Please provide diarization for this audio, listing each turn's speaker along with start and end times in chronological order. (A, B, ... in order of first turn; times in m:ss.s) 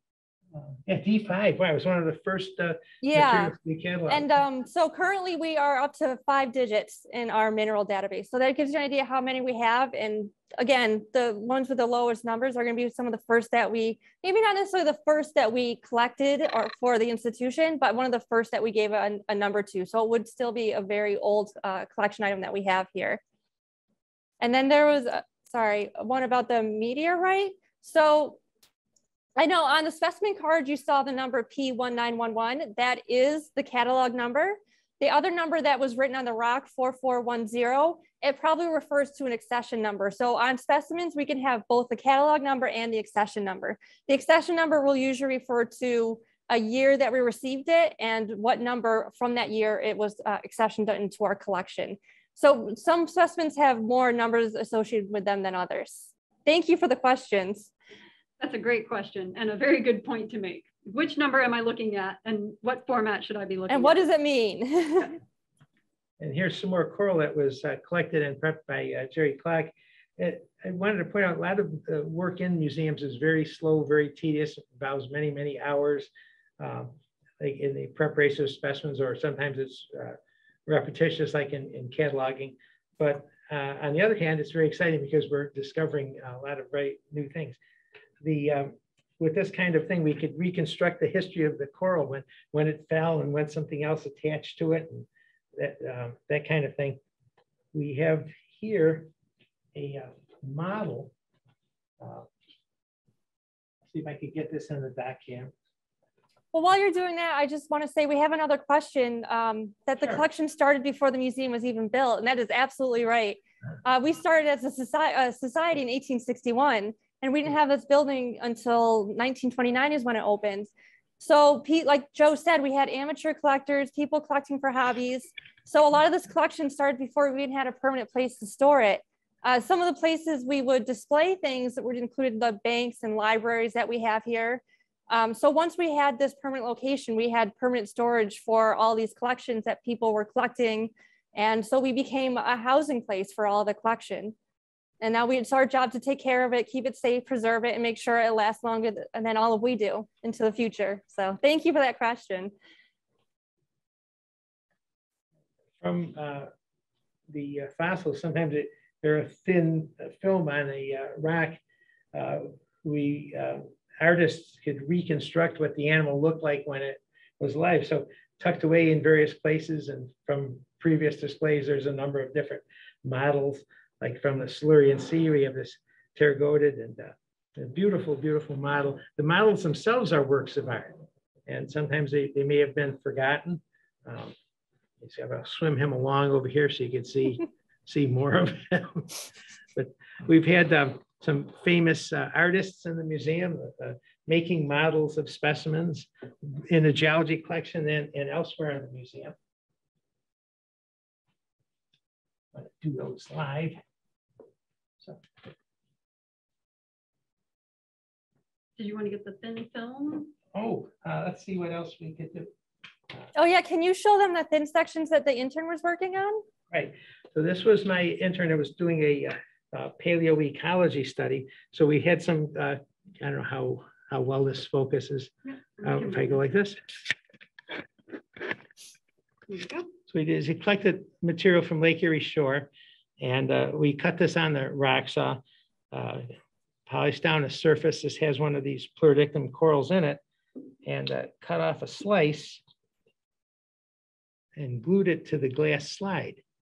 0:00.5-0:04.3 A
0:03.0-0:03.5 B
0:04.1-0:23.2 B
0:24.4-0:28.4 B
0:29.4-0:57.7 B
0:58.4-1:04.0 C
1:03.7-1:05.2 B
1:06.2-1:27.6 A
1:28.2-1:37.0 A
1:37.7-1:39.1 A
1:39.7-1:41.1 A
1:42.0-1:42.3 A
1:43.9-1:45.5 A
1:46.5-2:24.4 B
2:25.0-2:32.5 B
2:35.8-2:36.5 A
2:37.3-2:41.6 A
2:42.1-3:01.0 A
3:01.5-3:04.4 A
3:05.0-3:19.4 A
3:22.5-3:23.8 A
3:28.8-3:30.3 C
3:30.5-3:32.5 A
3:33.3-3:36.4 B
3:36.7-3:46.9 A
3:45.5-3:46.4 C
3:49.5-3:49.9 C
3:50.1-3:55.4 A
3:55.9-3:56.3 A
3:56.9-4:00.2 A
4:00.8-4:02.6 A
4:04.6-4:06.4 A